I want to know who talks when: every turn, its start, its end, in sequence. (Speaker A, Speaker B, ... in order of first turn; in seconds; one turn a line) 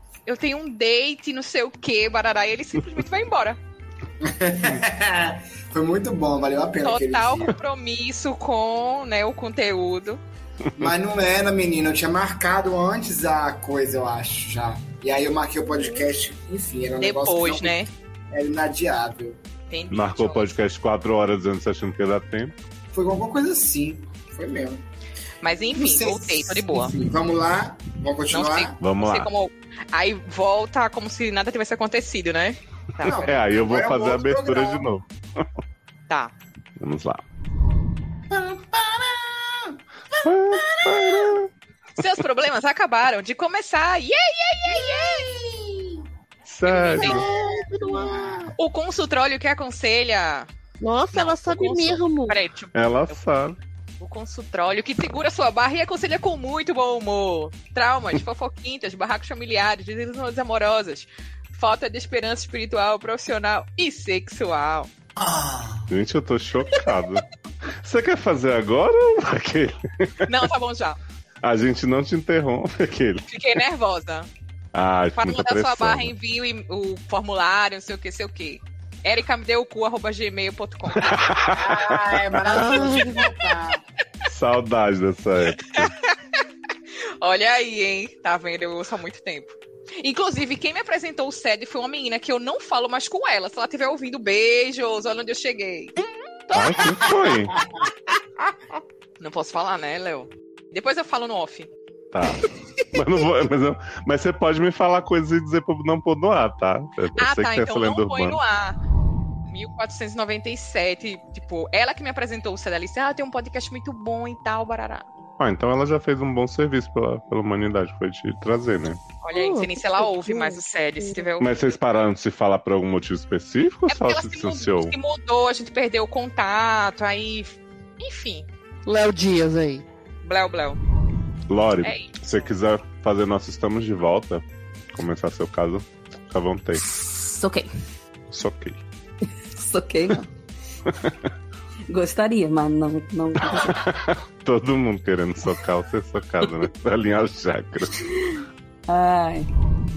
Speaker A: 0.2-3.6
Speaker B: 4.2-7.5
Speaker A: 6.8-10.2
Speaker B: 10.8-17.8
Speaker A: 17.0-17.9
Speaker B: 18.3-19.4
Speaker A: 19.7-20.6
Speaker C: 19.9-22.5
Speaker B: 22.9-24.8
Speaker A: 25.4-26.9
Speaker B: 25.7-28.8
Speaker A: 28.3-33.3
Speaker C: 28.8-29.3
Speaker B: 33.0-34.8
Speaker C: 33.0-35.5
Speaker C: 36.8-37.2
Speaker B: 38.3-39.7
Speaker C: 40.2-41.5
Speaker B: 40.6-41.3
Speaker A: 42.0-45.4
Speaker B: 44.8-46.0
Speaker C: 46.4-47.2
Speaker A: 46.6-47.2
Speaker B: 46.9-48.5
Speaker D: 47.0-48.5
Speaker A: 48.6-50.5
Speaker D: 50.8-52.4
Speaker A: 51.1-53.2
Speaker C: 52.7-53.6
Speaker A: 54.0-64.9
Speaker B: 65.2-65.8
Speaker C: 65.9-67.2
Speaker C: 67.8-70.3
Speaker A: 70.2-71.0
Speaker C: 71.4-73.2
Speaker A: 73.3-74.3
Speaker C: 74.7-76.1
Speaker A: 75.2-81.2
Speaker C: 81.0-82.6
Speaker B: 81.5-83.8
Speaker D: 82.5-83.3
Speaker C: 84.3-85.9
Speaker A: 85.7-86.4
Speaker A: 87.2-96.0
Speaker A: 96.5-97.1
Speaker C: 96.5-97.6
Speaker A: 99.2-101.7
Speaker C: 102.1-108.4
Speaker A: 107.2-108.8
Speaker A: 109.5-115.0
Speaker C: 115.4-119.0
Speaker A: 119.2-121.7
Speaker D: 119.3-121.2
Speaker C: 121.4-124.9
Speaker A: 123.9-128.5
Speaker D: 128.8-129.8
Speaker A: 130.2-130.8
Speaker C: 131.5-136.8
Speaker A: 131.8-132.1
Speaker E: 136.9-137.7
Speaker C: 138.3-138.8
Speaker E: 139.5-140.3
Speaker C: 140.9-141.2
Speaker E: 141.9-143.8
Speaker C: 143.4-148.0
Speaker E: 148.9-149.5